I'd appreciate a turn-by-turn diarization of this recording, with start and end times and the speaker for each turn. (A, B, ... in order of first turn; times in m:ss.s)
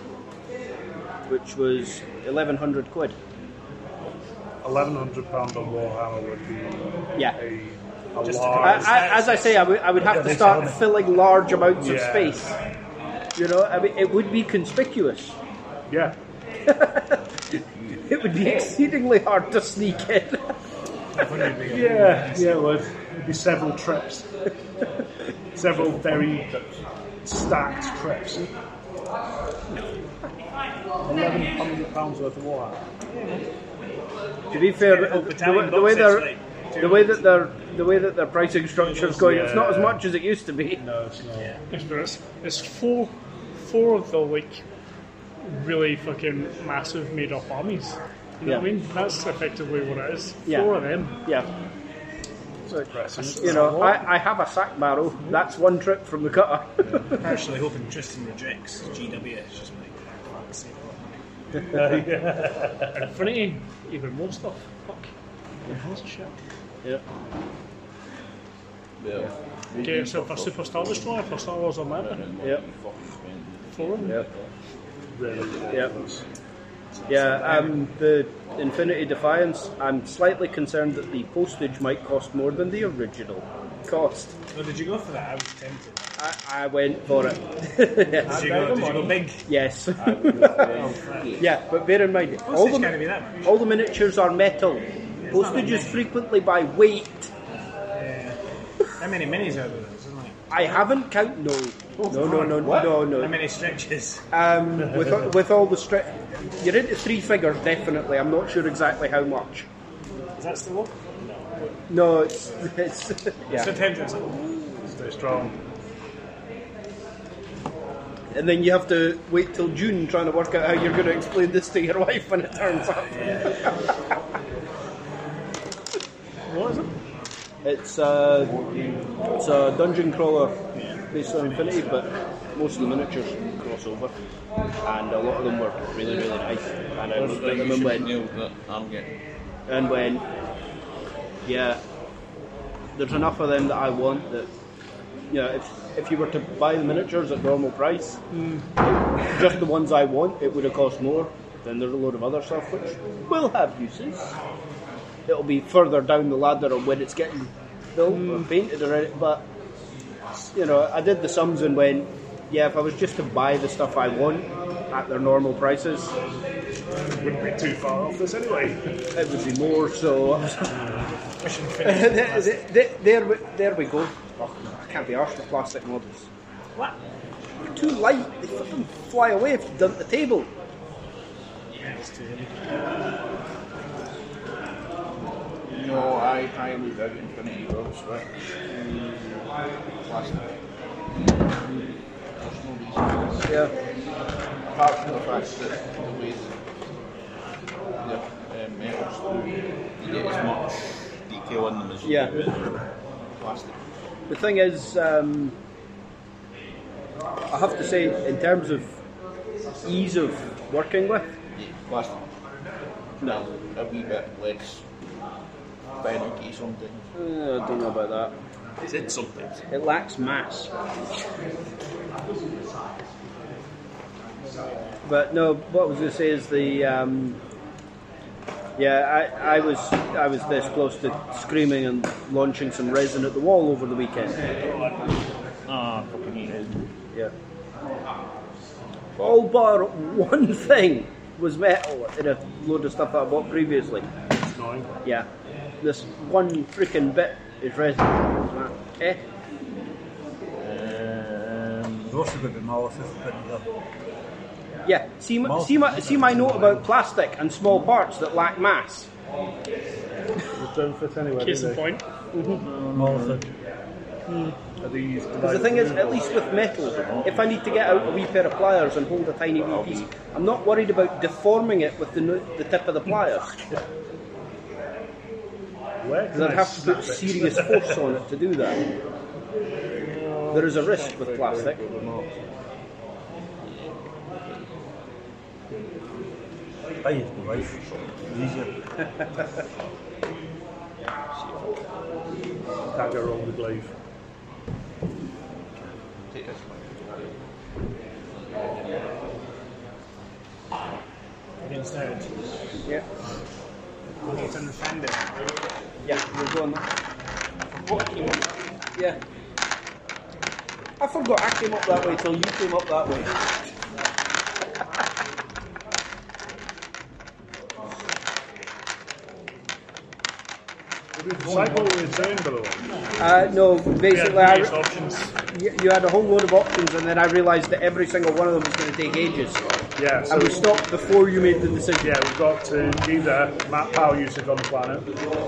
0:01.3-0:03.2 A
0:04.6-0:09.1 B
0:08.2-0:09.9 C
0:08.6-0:12.5 A
0:10.0-0:10.9 B
0:11.8-0:12.6 B
0:13.4-0:15.4 A
0:15.9-0:16.2 B
0:16.7-0:17.2 A
0:17.9-0:20.5 A
0:18.3-0:18.8 D
0:21.2-0:22.8 C
0:21.6-0:24.3 B
0:25.6-0:26.5 B
0:26.1-0:26.8 D
0:27.2-0:28.4 B
0:31.0-0:32.8 B
0:34.5-0:40.8 A
0:34.5-0:37.3 C
0:38.8-0:40.0 B
0:40.8-0:41.6 B
0:41.4-0:41.6 C
0:41.7-0:44.6 E
0:45.4-0:51.2 E
0:50.5-0:50.7 A
0:52.8-0:53.9 B
0:53.2-0:54.0 E
0:53.4-0:57.3 A
0:57.2-1:01.1 C
1:01.7-1:03.2 B
1:02.9-1:05.1 E
1:05.7-1:06.3 E
1:09.0-1:11.1 D
1:09.8-1:12.2 E
1:12.0-1:14.5 D
1:13.7-1:14.2 E
1:15.1-1:16.2 B
1:15.3-1:15.9 D
1:17.0-1:17.6 B
1:17.1-1:24.4 A
1:24.5-1:26.0 C
1:26.2-1:30.7 A
1:28.2-1:29.5 C
1:28.4-1:29.1 D
1:30.0-1:31.6 D
1:30.7-1:31.4 C
1:31.4-1:37.3 A
1:32.5-1:33.6 C
1:35.2-1:36.1 C
1:37.9-1:38.4 C
1:38.9-1:40.4 C
1:40.5-1:43.3 A
1:42.0-1:43.0 D
1:42.2-1:44.2 C
1:44.3-1:49.7 A
1:50.4-1:51.5 C
1:51.9-1:53.7 A
1:53.5-1:54.9 C
1:54.9-1:55.6 B
1:58.3-2:03.8 A
2:03.1-2:03.5 C
2:06.5-2:06.9 C
2:07.6-2:08.5 A
2:08.4-2:09.1 D
2:09.4-2:10.6 A
2:10.7-2:12.1 C
2:11.1-2:14.1 A
2:14.8-2:18.1 A
2:17.1-2:19.1 D
2:19.7-2:20.2 A
2:21.4-2:21.8 A
2:23.0-2:24.5 A
2:25.3-2:34.4 A
2:35.2-2:39.5 A
2:38.1-2:38.5 E
2:40.5-2:46.1 A
2:47.2-2:48.8 B
2:49.1-2:50.8 A
2:50.7-2:51.1 B
2:51.4-2:52.6 C
2:51.8-2:56.3 A
2:57.6-3:00.5 A
3:01.7-3:02.6 C
3:05.7-3:08.3 D
3:10.0-3:10.5 D
3:11.1-3:13.7 D
3:13.5-3:13.7 A
3:14.6-3:16.6 D
3:18.0-3:23.9 D
3:22.0-3:22.4 A
3:24.3-3:25.6 A
3:27.5-3:29.0 A
3:29.8-3:31.4 A
3:31.6-3:32.2 D
3:33.2-3:34.8 D
3:36.0-3:37.1 D
3:37.2-3:38.4 A
3:38.9-3:39.6 D
3:39.7-3:40.7 A
3:44.5-3:44.7 C
3:45.0-3:47.4 A
3:48.8-3:54.4 A
3:55.6-3:56.9 D
3:59.2-4:04.1 A
4:04.4-4:04.9 B
4:05.8-4:09.2 A
4:10.6-4:12.1 D
4:12.1-4:13.7 F
4:14.8-4:19.1 A
4:15.4-4:16.9 F
4:20.6-4:21.9 B
4:21.4-4:22.0 E
4:22.3-4:22.6 A
4:22.4-4:23.4 D
4:22.9-4:23.5 F
4:24.8-4:26.3 B
4:25.4-4:33.6 A
4:26.8-4:28.1 D
4:29.6-4:30.1 D
4:36.0-4:38.0 B
4:36.3-4:38.8 A
4:40.0-4:42.4 D
4:40.5-4:41.8 A
4:43.6-4:43.9 D
4:47.0-4:48.7 F
4:47.8-4:48.2 D
4:51.3-4:51.8 D
4:52.9-4:53.9 B
4:55.8-4:57.4 D
4:58.4-4:59.1 D
5:01.6-5:02.4 C
5:04.2-5:05.2 C
5:06.0-5:06.9 A
5:07.6-5:08.5 D
5:11.0-5:13.4 A
5:21.1-5:22.9 B
5:23.2-5:24.8 A
5:24.0-5:25.3 E
5:25.5-5:29.6 A
5:30.0-5:30.6 B
5:30.3-5:32.1 A
5:32.0-5:35.1 B